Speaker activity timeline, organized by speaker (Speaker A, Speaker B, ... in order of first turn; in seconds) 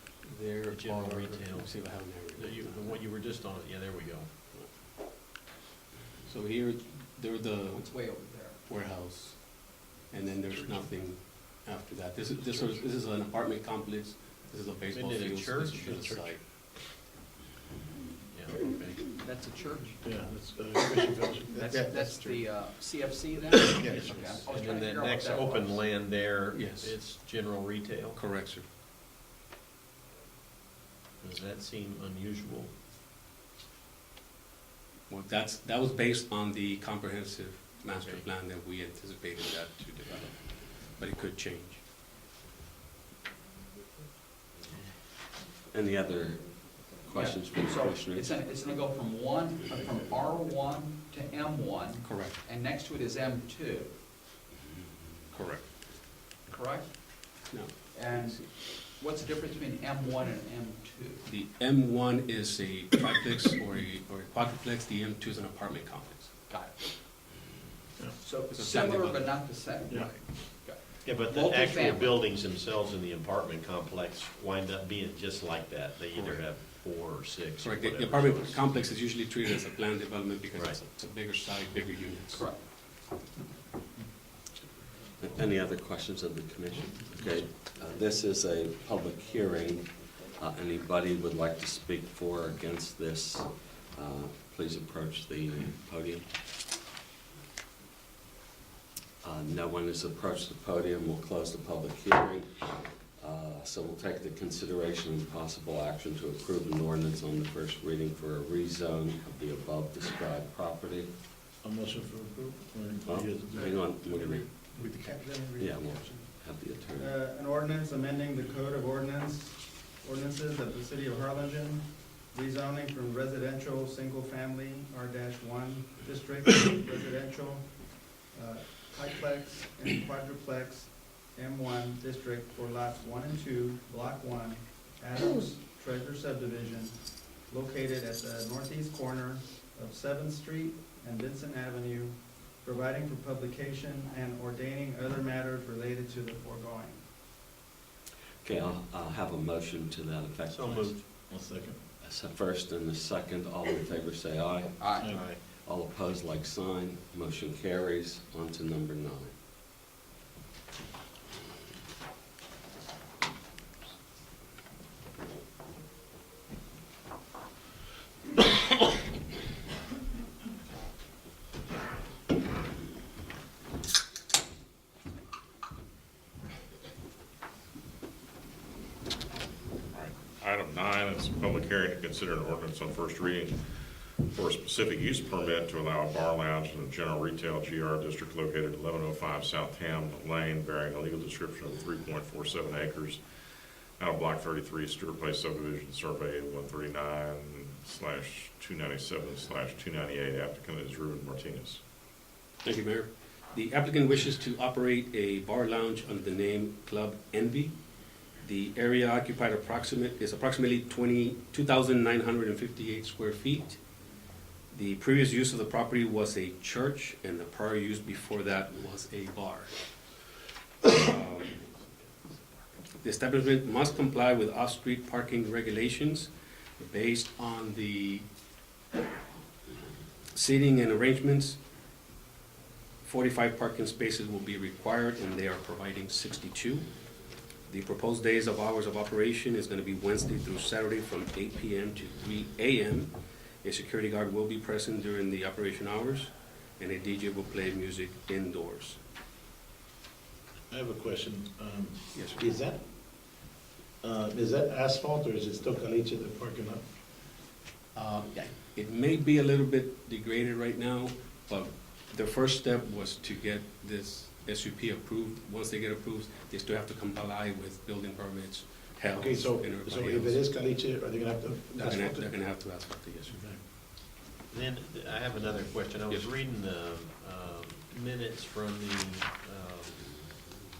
Speaker A: 0.2-3.0, 6.2-7.9, 8.7-16.4, 26.5-27.0, 28.1-28.6, 35.1-41.8, 52.0-52.4, 55.3-55.7, 57.5-58.4, 61.2-66.3, 68.5-70.1, 76.1-76.6, 77.6-82.5, 202.6-207.7, 208.4-213.8, 214.7-219.9, 220.9-221.6, 223.0-228.2, 230.3-231.6, 233.0-236.8, 237.7-243.1, 243.6-249.0, 252.1-252.5, 257.9-270.4, 271.7-273.4
Speaker B: 0.7-1.7, 2.3-4.3, 14.9-16.1, 18.3-19.0, 23.8-28.2, 31.2-32.7, 37.9-38.3, 71.0-79.0, 80.5-80.8, 150.5-151.0, 155.1-155.4, 221.7-222.4, 274.5-280.1
Speaker C: 7.7-8.6, 19.2-20.0, 21.5-25.8, 47.1-53.9, 56.5-61.2, 66.5-66.9, 68.2-72.2, 82.3-82.6, 154.8-155.1
Speaker D: 20.0-22.4, 23.5-24.4, 69.9-70.2, 111.6-113.8, 151.3-151.8, 250.7-252.8, 254.0-256.8, 269.1-272.3, 273.3-273.6
Speaker E: 45.7-48.3, 85.2-96.3, 99.2-102.6, 103.2-111.1, 113.0-114.7, 115.5-117.1, 148.4-150.9, 152.0-159.3
Speaker F: 113.6-116.4, 116.9-147.0
Speaker G: 179.9-201.8